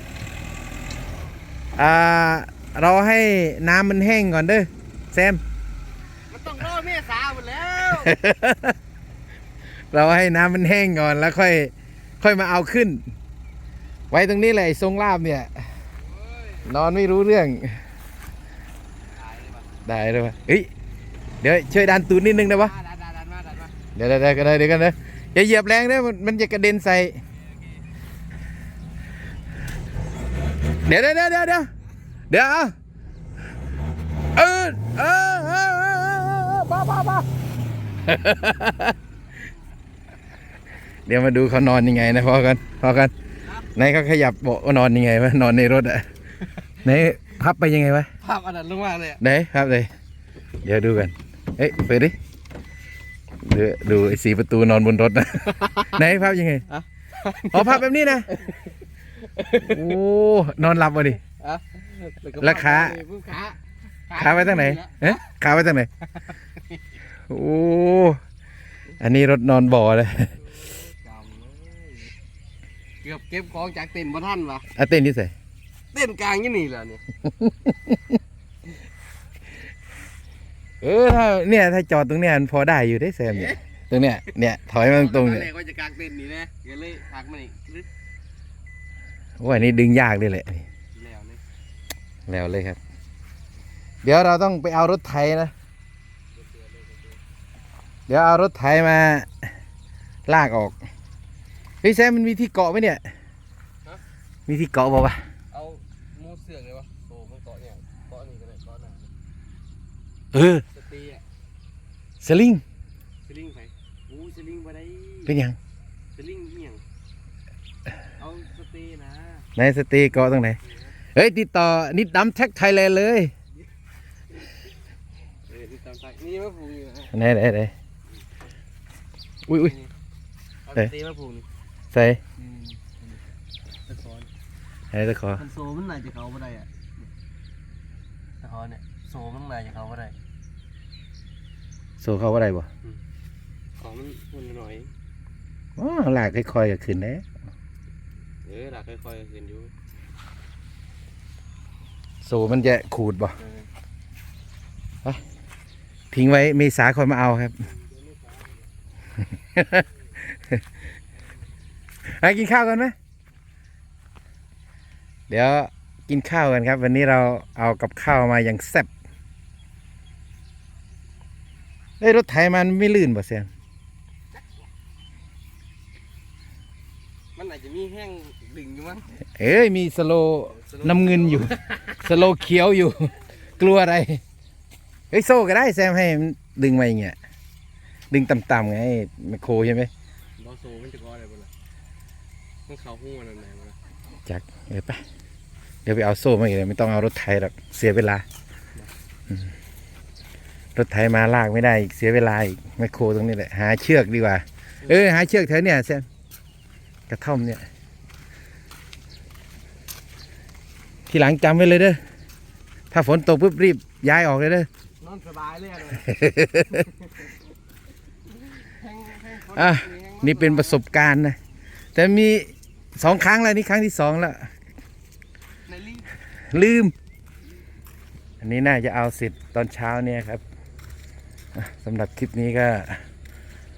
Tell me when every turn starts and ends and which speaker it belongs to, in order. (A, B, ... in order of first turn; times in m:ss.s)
0:01.8-0:05.4 A
0:06.3-0:08.2 B
0:07.9-0:08.8 A
0:09.9-0:13.0 A
0:14.1-0:15.7 A
0:16.2-0:16.7 B
0:16.6-0:17.8 A
0:19.2-0:19.8 B
0:19.9-0:20.7 A
0:21.4-0:22.7 A
0:22.5-0:23.8 B
0:24.0-0:27.2 A
0:30.8-0:31.7 A
0:32.3-0:32.7 A
0:34.4-0:37.2 A
0:38.0-0:39.0 A
0:41.1-0:43.1 A
0:43.8-0:46.1 A
0:46.8-0:48.1 A
0:48.2-0:49.2 B
0:49.2-0:49.9 A
0:50.6-0:52.2 A
0:53.4-0:56.7 A
0:55.7-0:56.0 B
0:56.7-1:00.0 B
0:57.5-0:58.4 A
0:59.6-1:01.2 A
1:01.4-1:05.2 B
1:02.4-1:03.0 A
1:04.2-1:05.9 A
1:06.3-1:06.8 B
1:07.3-1:08.2 A
1:09.0-1:10.4 A
1:10.8-1:12.2 B
1:13.0-1:14.7 B
1:14.7-1:15.3 A
1:15.9-1:17.0 B
1:17.4-1:18.0 A
1:20.8-1:25.5 A
1:23.3-1:23.6 B
1:24.9-1:27.9 B
1:29.4-1:30.6 A
1:31.0-1:31.4 B
1:32.3-1:32.8 A
1:34.0-1:35.5 A
1:36.3-1:37.2 B
1:38.1-1:39.3 A
1:40.3-1:40.8 A
1:41.8-1:43.0 A
1:44.5-1:45.2 A
1:45.5-1:49.1 B
1:50.3-1:50.6 A
1:50.7-1:51.2 B
1:52.2-1:52.6 A
1:53.2-1:55.3 B
1:55.2-1:55.6 A
1:56.2-1:56.8 B
1:58.2-1:59.5 B
1:59.6-2:00.6 A
2:01.2-2:03.3 A
2:05.5-2:07.1 B
2:07.1-2:07.7 A
2:09.5-2:09.7 A
2:09.5-2:09.9 B
2:10.6-2:11.5 B
2:11.9-2:12.2 A
2:12.4-2:13.2 B
2:13.9-2:14.3 B
2:14.9-2:15.4 A
2:15.4-2:16.7 B
2:18.4-2:20.2 B
2:22.0-2:22.7 A
2:23.8-2:24.9 B
2:25.8-2:27.2 A
2:28.4-2:29.7 B
2:32.2-2:33.4 A
2:33.4-2:33.6 B
2:36.1-2:37.6 A
2:37.7-2:38.6 B
2:39.5-2:39.8 A
2:42.2-2:42.9 A
2:45.3-2:48.9 A
2:52.0-2:53.5 A
2:57.4-2:59.1 B
2:59.4-3:04.2 A
3:00.6-3:01.8 B
3:05.1-3:07.2 A
3:08.1-3:09.9 A
3:10.4-3:11.5 B
3:12.7-3:13.8 B
3:14.3-3:15.0 A
3:15.9-3:18.2 A
3:20.8-3:26.1 A
3:27.1-3:27.6 A
3:31.1-3:32.0 A
3:32.9-3:34.7 A
3:35.0-3:36.1 B
3:36.0-3:36.8 A
3:36.6-3:37.3 B
3:38.4-3:40.8 B
3:39.6-3:41.4 A
3:42.0-3:44.5 A
3:45.7-3:46.1 B
3:46.5-3:46.9 A
3:48.4-3:50.4 A
3:51.6-3:53.0 A